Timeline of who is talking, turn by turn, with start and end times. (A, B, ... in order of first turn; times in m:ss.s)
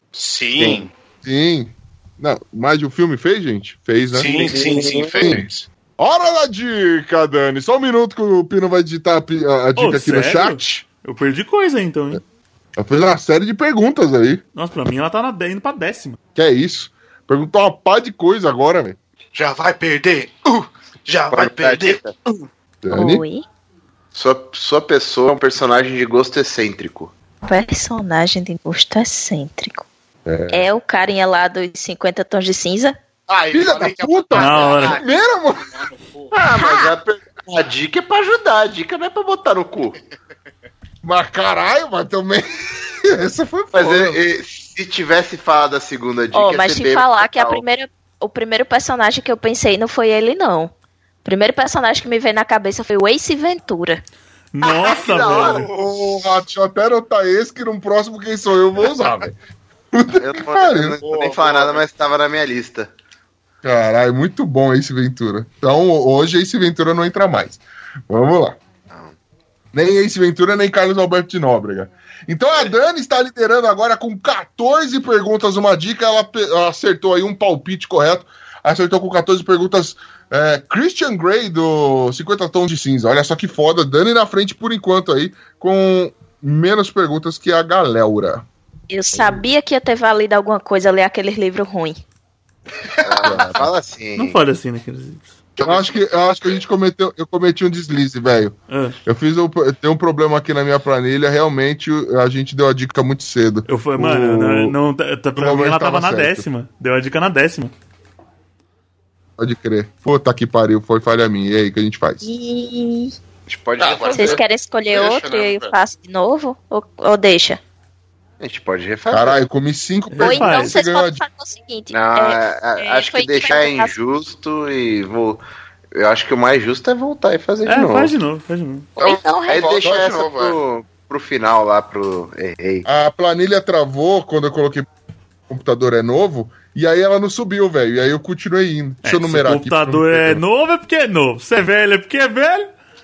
0:00.1-0:00.9 A
0:00.6-0:00.8 B
0:01.2-0:04.5 C
0:04.1-0:05.7 A
0:04.3-0:05.4 B
0:05.2-0:10.8 C
0:09.8-0:12.2 D
0:12.8-0:14.4 C
0:14.5-0:16.2 D
0:16.3-0:19.0 C
0:19.3-0:22.4 A
0:21.3-0:22.1 B
0:22.8-0:23.2 C
0:22.9-0:23.4 E
0:24.1-0:27.1 B
0:27.4-0:29.9 E
0:30.2-0:30.7 C
0:30.5-0:33.0 E
0:33.3-0:35.0 A
0:33.5-0:35.8 C
0:34.3-0:35.0 D
0:35.7-0:36.3 A
0:36.3-0:40.0 B
0:36.6-0:36.9 E
0:41.0-0:44.2 C
0:43.7-0:47.6 B
0:46.3-0:50.7 E
0:51.2-0:54.0 E
0:54.5-0:55.7 D
0:54.6-0:55.7 B
0:55.2-0:56.1 A
0:55.7-0:59.4 C
0:59.9-1:01.0 C
1:00.1-1:02.9 B
1:01.0-1:01.8 A
1:03.6-1:08.6 C
1:09.7-1:28.4 C
1:28.9-1:32.0 E
1:29.1-1:29.4 C
1:33.0-1:34.4 B
1:33.2-1:33.7 C
1:34.1-1:35.3 D
1:35.6-1:36.6 A
1:35.6-1:44.7 C
1:38.7-1:39.0 D
1:43.7-1:47.7 D
1:45.3-1:46.5 C
1:49.4-1:52.2 C
1:52.2-1:53.1 E
1:53.5-1:54.4 B
1:53.8-1:55.7 A
1:54.1-1:57.6 E
1:58.4-1:59.4 B
1:59.1-2:01.2 C
2:00.1-2:00.8 D
2:00.2-2:03.9 E
2:01.9-2:05.4 B
2:05.9-2:08.1 B
2:07.6-2:08.9 D
2:09.0-2:09.8 E
2:09.0-2:10.6 A
2:09.5-2:12.8 B
2:12.8-2:14.9 C
2:15.5-2:20.4 C
2:19.0-2:22.7 D